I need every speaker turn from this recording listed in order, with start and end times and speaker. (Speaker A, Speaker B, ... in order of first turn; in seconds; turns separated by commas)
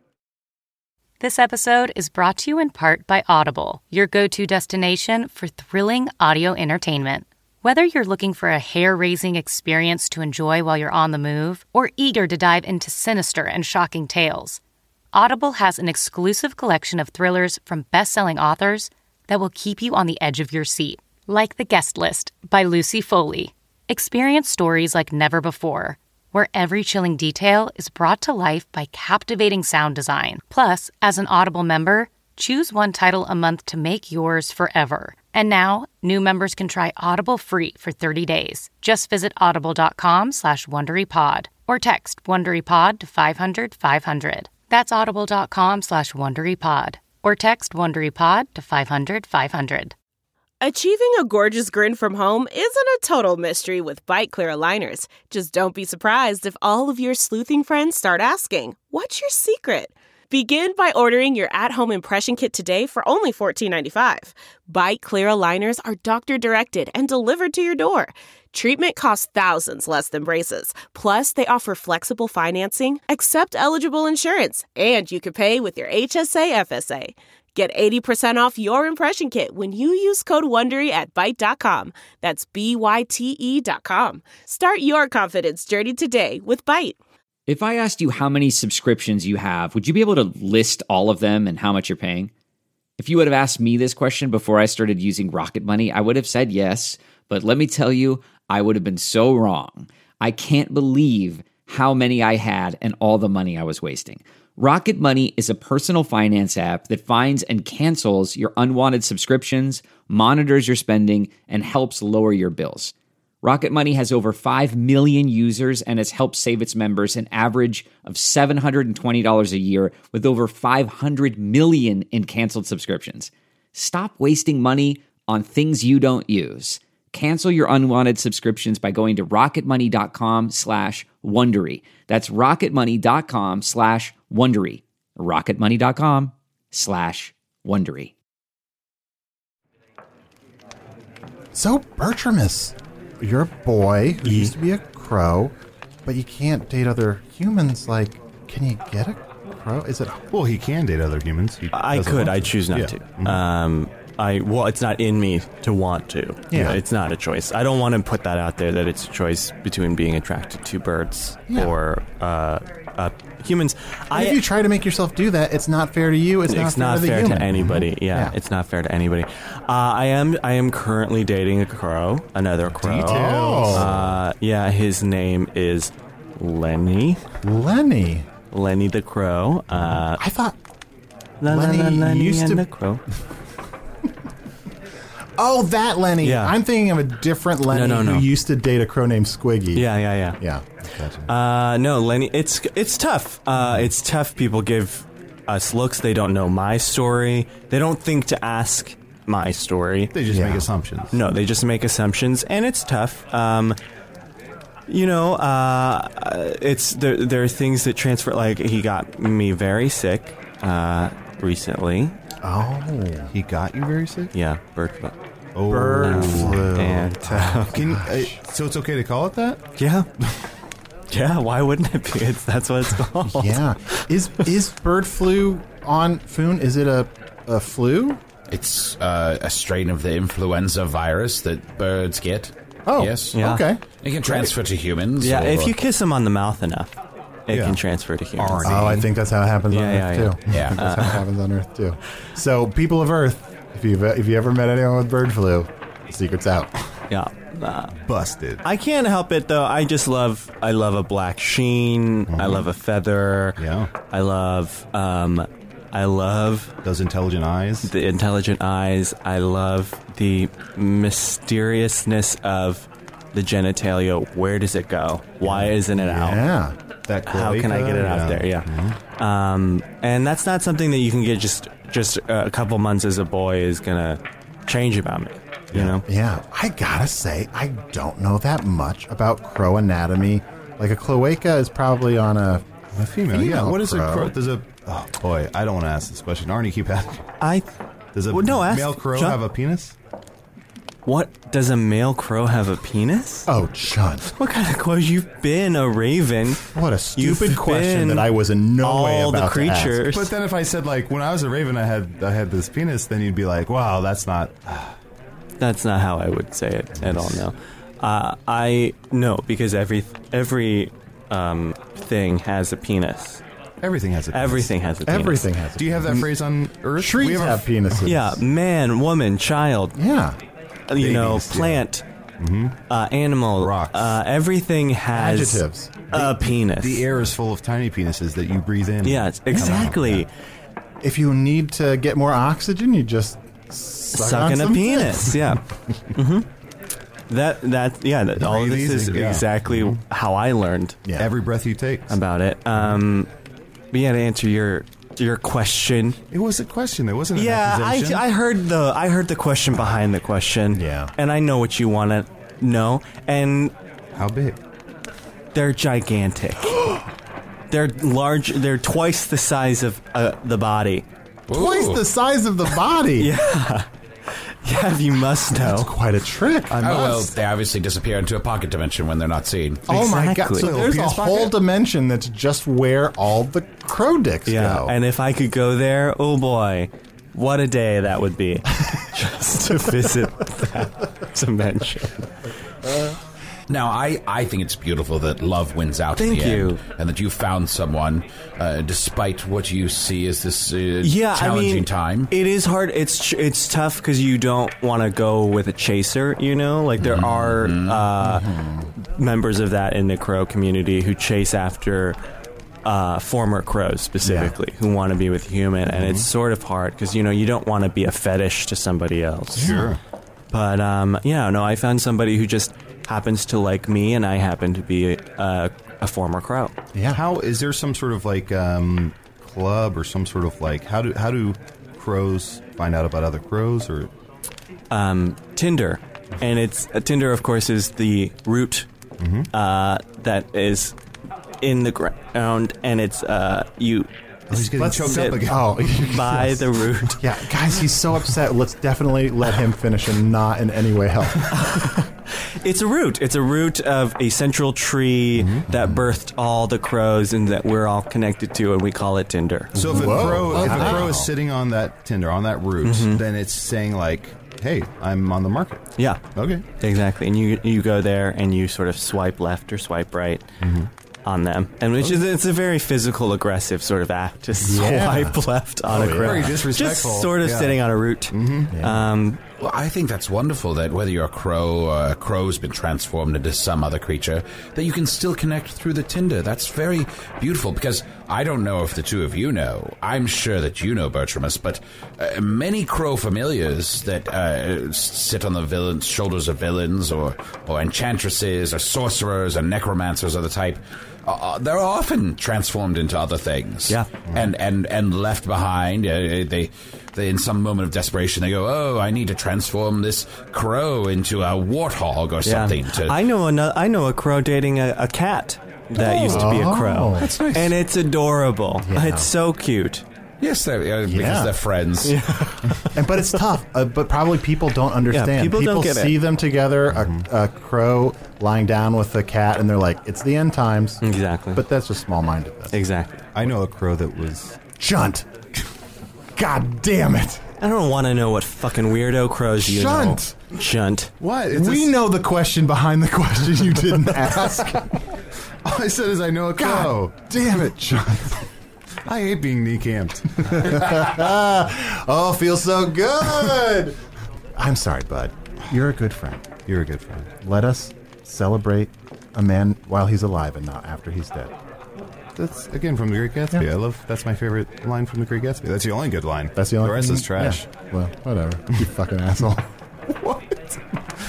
Speaker A: 1.2-14.6, Speaker A: 15.1-49.9, Speaker B: 50.6-87.0, Speaker C: 87.5-92.3, Speaker C: 93.0-138.1, Speaker D: 141.5-145.5, Speaker E: 144.2-144.5, Speaker D: 146.0-150.2, Speaker F: 150.3-153.4, Speaker E: 151.7-164.4, Speaker D: 156.5-156.8, Speaker D: 161.5-161.7, Speaker D: 164.1-168.3, Speaker E: 166.5-177.2, Speaker F: 172.8-174.1, Speaker D: 173.0-173.9, Speaker D: 177.4-178.3, Speaker E: 178.5-180.2, Speaker D: 180.2-180.6, Speaker E: 181.4-183.0, Speaker D: 181.4-182.7, Speaker D: 185.4-189.9, Speaker E: 186.2-186.5, Speaker E: 187.7-188.3, Speaker E: 189.7-190.4, Speaker D: 190.4-190.7, Speaker F: 190.9-191.3, Speaker E: 191.3-200.1, Speaker F: 200.1-201.2, Speaker D: 200.3-200.7, Speaker E: 201.1-203.8, Speaker E: 204.9-212.2, Speaker D: 212.4-213.3, Speaker F: 213.3-214.3, Speaker E: 214.3-215.1, Speaker F: 215.5-216.8, Speaker D: 215.7-218.4, Speaker E: 216.0-217.8, Speaker F: 217.7-219.6, Speaker E: 219.8-220.1, Speaker E: 221.1-224.0, Speaker D: 223.2-228.2, Speaker G: 228.5-233.3, Speaker D: 232.8-233.8, Speaker E: 233.3-233.6, Speaker G: 234.0-235.8, Speaker E: 235.2-236.9, Speaker E: 237.5-239.0, Speaker F: 237.5-237.8, Speaker F: 238.3-239.1, Speaker D: 238.6-246.7, Speaker E: 239.7-241.2, Speaker G: 240.5-240.8, Speaker E: 247.1-247.9, Speaker F: 248.0-248.6, Speaker E: 248.6-253.6, Speaker F: 252.3-252.6, Speaker F: 253.6-253.9, Speaker E: 254.1-256.7, Speaker F: 256.8-257.9, Speaker E: 257.8-266.4, Speaker D: 266.0-266.8, Speaker F: 267.1-269.0, Speaker E: 267.2-276.0, Speaker F: 275.7-276.0, Speaker D: 276.0-284.3, Speaker F: 282.9-287.2, Speaker E: 287.4-287.7, Speaker F: 288.1-289.9, Speaker E: 288.3-289.4, Speaker E: 291.1-293.5, Speaker D: 293.5-294.3, Speaker E: 294.3-296.6, Speaker D: 296.7-300.0, Speaker E: 297.1-298.3, Speaker E: 298.8-300.3, Speaker F: 300.1-304.9, Speaker E: 305.6-313.4, Speaker F: 313.8-314.7, Speaker E: 314.3-315.5, Speaker D: 315.1-316.3, Speaker F: 315.8-317.7, Speaker D: 317.0-318.4, Speaker E: 318.0-319.9, Speaker D: 319.9-320.4, Speaker E: 320.9-322.0, Speaker F: 321.0-321.8, Speaker F: 322.4-322.8, Speaker E: 322.9-327.1, Speaker F: 323.6-324.1, Speaker D: 325.1-325.9, Speaker F: 326.1-330.2, Speaker E: 329.0-330.3, Speaker D: 329.5-330.0, Speaker D: 331.0-335.4, Speaker E: 334.1-335.6, Speaker E: 336.1-336.5, Speaker E: 337.3-341.0, Speaker F: 338.4-340.0, Speaker F: 341.2-342.1, Speaker E: 342.1-343.3, Speaker E: 343.9-346.2, Speaker F: 346.3-348.2, Speaker E: 347.3-353.7, Speaker D: 350.7-351.1, Speaker F: 354.1-354.6, Speaker E: 355.5-356.8, Speaker E: 357.7-361.1, Speaker G: 361.5-362.0, Speaker D: 361.5-363.3, Speaker E: 363.2-363.9, Speaker E: 364.6-365.9, Speaker D: 365.5-367.1, Speaker F: 366.7-367.2, Speaker G: 366.8-369.9, Speaker D: 369.9-374.9, Speaker E: 369.9-370.9, Speaker F: 370.5-371.6, Speaker E: 374.4-382.2, Speaker G: 383.7-392.3, Speaker E: 386.2-386.8, Speaker E: 391.0-402.2, Speaker G: 397.0-398.1, Speaker D: 398.2-398.9, Speaker E: 402.8-409.8, Speaker D: 404.2-404.5, Speaker F: 405.9-406.3, Speaker D: 409.6-409.9, Speaker F: 409.6-410.0, Speaker E: 410.5-416.7, Speaker D: 416.9-417.2, Speaker F: 417.1-424.1, Speaker E: 424.9-428.9, Speaker F: 429.2-429.5, Speaker E: 429.5-430.9, Speaker E: 431.6-434.1, Speaker F: 434.5-435.8, Speaker D: 434.5-441.5, Speaker E: 435.0-437.2, Speaker E: 441.5-442.1, Speaker E: 442.6-451.0, Speaker F: 445.4-445.6, Speaker F: 449.7-455.8, Speaker D: 449.8-451.3, Speaker E: 452.8-453.2, Speaker F: 456.3-456.6, Speaker E: 456.8-460.4, Speaker F: 460.6-460.9, Speaker E: 461.2-469.4, Speaker D: 464.6-466.6, Speaker F: 465.9-467.8, Speaker F: 468.3-468.7, Speaker D: 468.7-469.0, Speaker G: 469.6-503.1, Speaker E: 502.4-510.0, Speaker D: 506.3-507.3, Speaker G: 507.2-507.6, Speaker D: 508.8-509.3, Speaker G: 510.4-512.1, Speaker D: 511.0-511.6, Speaker E: 512.0-513.2, Speaker D: 512.9-521.0, Speaker E: 515.1-516.2, Speaker E: 521.0-521.6, Speaker D: 521.5-522.7, Speaker E: 522.7-523.2, Speaker F: 523.3-524.6, Speaker D: 524.8-525.3, Speaker D: 526.4-527.4, Speaker E: 527.6-531.1, Speaker D: 529.6-530.3, Speaker F: 531.2-531.9, Speaker D: 531.5-535.0, Speaker F: 535.6-537.1, Speaker D: 536.5-538.4, Speaker F: 539.0-541.1, Speaker D: 540.6-544.0, Speaker D: 544.5-546.4, Speaker F: 546.7-547.3, Speaker D: 547.4-551.5, Speaker F: 552.4-557.6, Speaker D: 556.5-559.7, Speaker F: 560.2-560.8